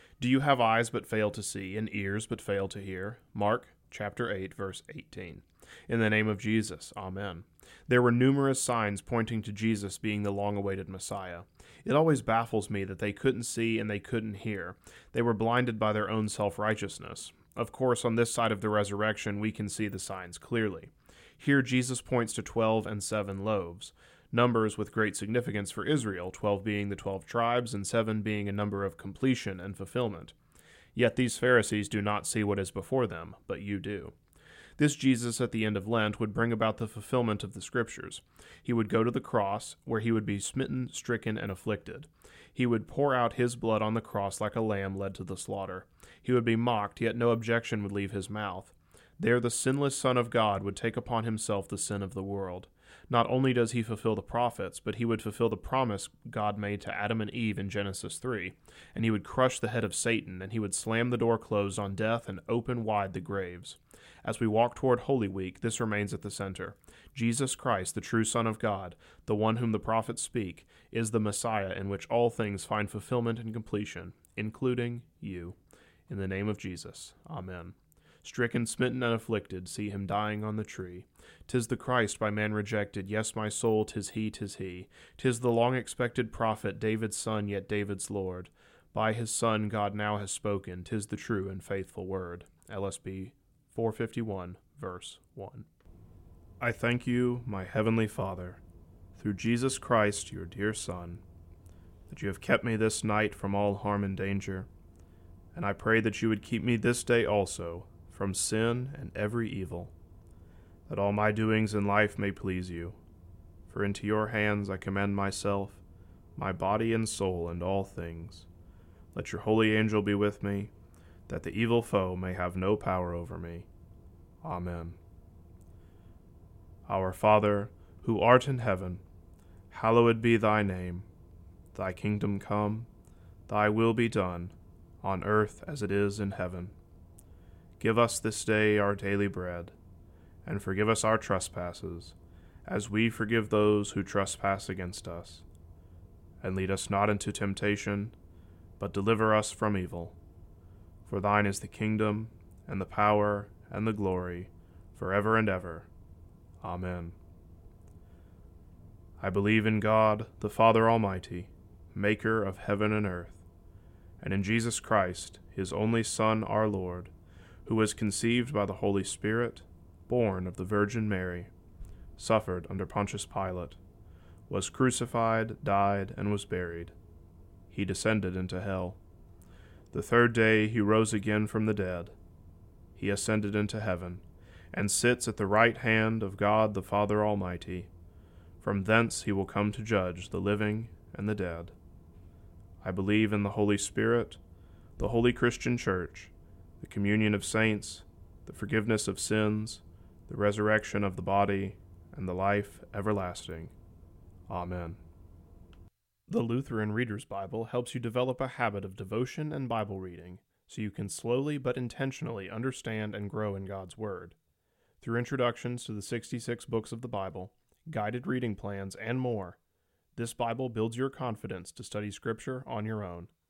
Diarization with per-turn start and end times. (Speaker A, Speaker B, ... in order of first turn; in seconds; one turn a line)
Speaker A: 0.2-30.4
Speaker A: 30.9-34.1
Speaker A: 34.8-75.6
Speaker A: 76.1-95.7
Speaker A: 96.6-98.6
Speaker A: 99.2-101.2
Speaker A: 102.1-104.7
Speaker A: 105.5-109.9
Speaker A: 110.9-113.0
Speaker A: 113.7-115.8
Speaker A: 116.4-118.5
Speaker A: 119.2-120.7
Speaker A: 121.3-123.7
Speaker A: 124.4-125.0
Speaker A: 126.9-129.0
Speaker A: 129.7-131.1
Speaker A: 131.7-132.9
Speaker A: 133.5-136.8
Speaker A: 137.8-139.7
Speaker A: 140.4-142.2
Speaker A: 142.7-145.4
Speaker A: 146.4-148.2
Speaker A: 148.8-150.2
Speaker A: 151.1-155.9
Speaker A: 156.6-157.2
Speaker A: 159.2-163.4
Speaker A: 164.2-167.1
Speaker A: 167.7-171.5
Speaker A: 172.2-173.8
Speaker A: 174.5-176.9
Speaker A: 177.7-179.0
Speaker A: 179.9-182.1
Speaker A: 183.0-187.9
Speaker A: 188.6-191.7
Speaker A: 192.8-194.4
Speaker A: 195.0-203.7
Speaker A: 204.5-205.0
Speaker A: 206.3-214.4
Speaker A: 215.0-219.6
Speaker A: 220.2-223.3